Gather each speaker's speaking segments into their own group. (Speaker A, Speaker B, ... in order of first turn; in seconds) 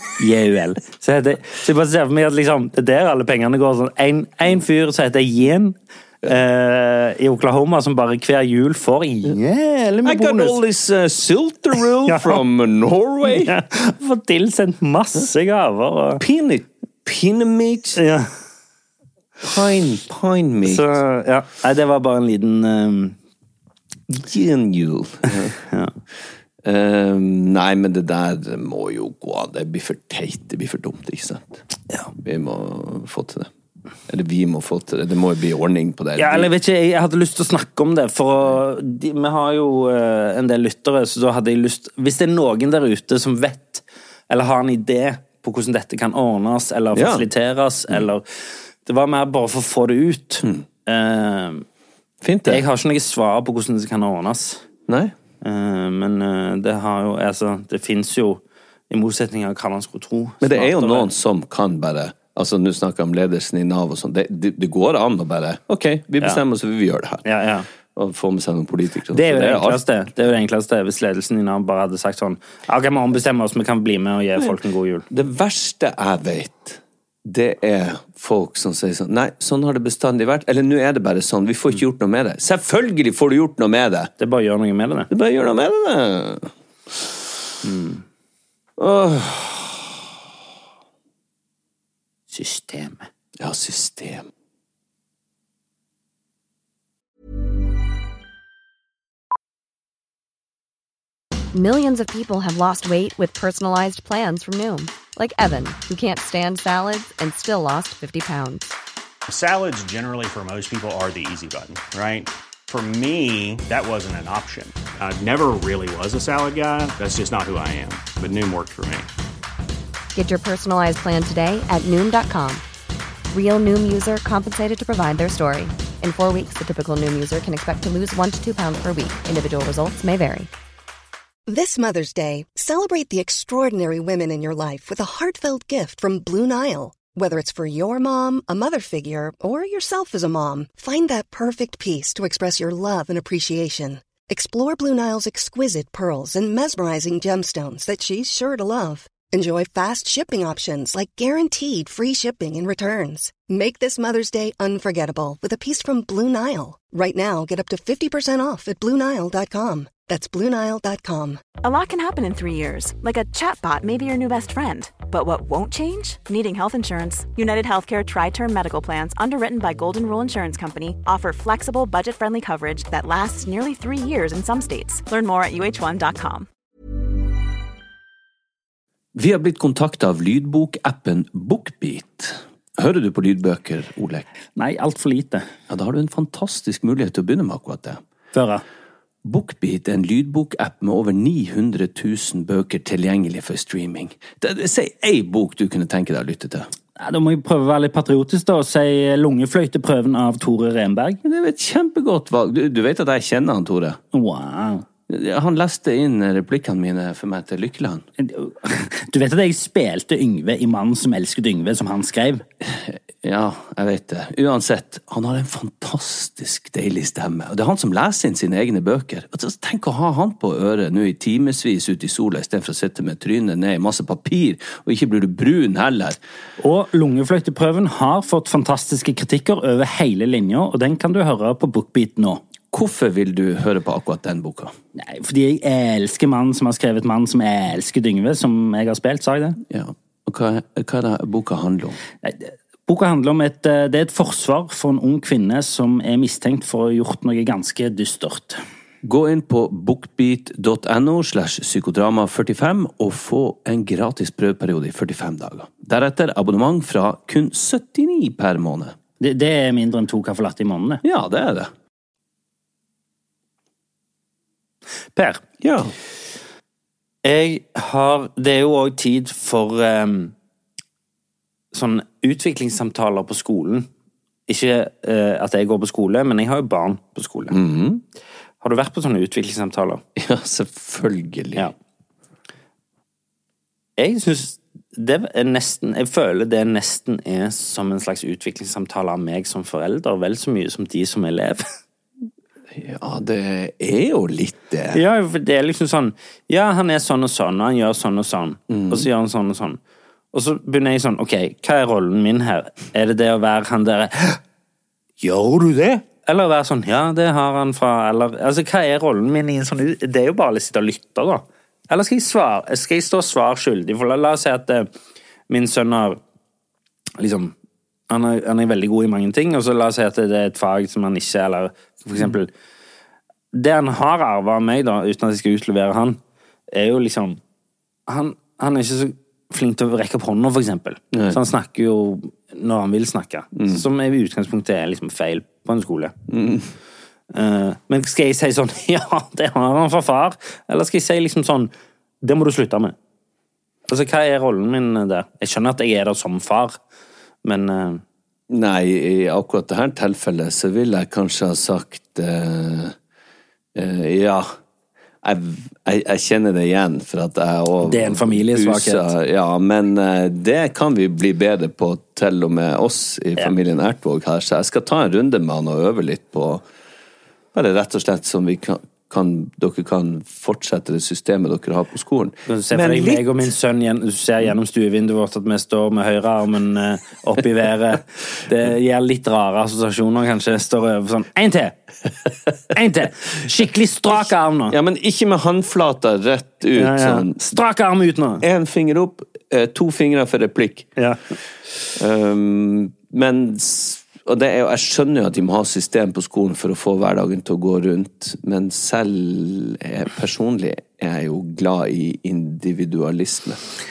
Speaker A: 0.2-10.6, 12.1-12.4, 13.2-16.2, 18.0-18.3, 20.6-23.2, 25.7-25.9, 36.2-48.2, 48.9-51.6, 52.5-54.6, 55.4-61.1, 67.2-67.7, 69.1-75.1, 84.2-85.1, 87.6-88.0, 92.3-93.1, 184.6-185.5, 188.3-188.6, 197.0-201.2, 204.1-204.8, 208.2-212.4, 226.6-232.4, 235.0-239.6, 242.2-248.6, 259.2-261.0, 265.1-265.4, 267.2-270.3, 271.7-273.9, 274.5-277.6, 278.6-280.0, 284.0-291.6, 294.9-299.8, 300.3-304.4, 305.2-314.9, 315.5-316.2, 317.2-317.5, 318.1-322.5, 323.5-326.2, 326.7-327.4, 328.1-336.1, 337.3-341.7, 342.2-342.9, 343.9-346.8, 347.4-348.0, 357.8-359.1, 372.5-381.8, 382.6-384.8, 386.8-388.4
Speaker B: 10.1-13.6, 16.2-18.0, 19.4-21.0, 24.1-25.6, 26.6-31.6, 32.2-33.5, 34.1-36.5, 46.9-47.3, 52.2-52.6, 54.9-55.1, 60.4-67.2, 67.9-69.8, 75.1-84.1, 85.1-87.1, 88.8-89.9, 93.4-94.3, 179.1-184.3, 185.7-188.0, 189.2-196.7, 201.2-204.0, 205.1-208.1, 212.6-226.2, 232.7-234.7, 239.7-242.0, 249.0-259.0, 261.0-261.7, 265.6-265.9, 277.5-278.0, 280.1-281.7, 292.7-295.0, 298.7-299.1, 331.1-331.4, 333.6-333.9, 336.3-336.7, 348.5-353.0, 353.8-354.5, 355.2-366.6, 367.5-373.2, 384.7-387.4, 388.4-390.9, 392.0-403.6
Speaker C: 101.5-108.8, 120.1-122.6, 123.3-130.5
Speaker D: 109.3-119.1
Speaker E: 131.5-161.4
Speaker F: 161.6-176.5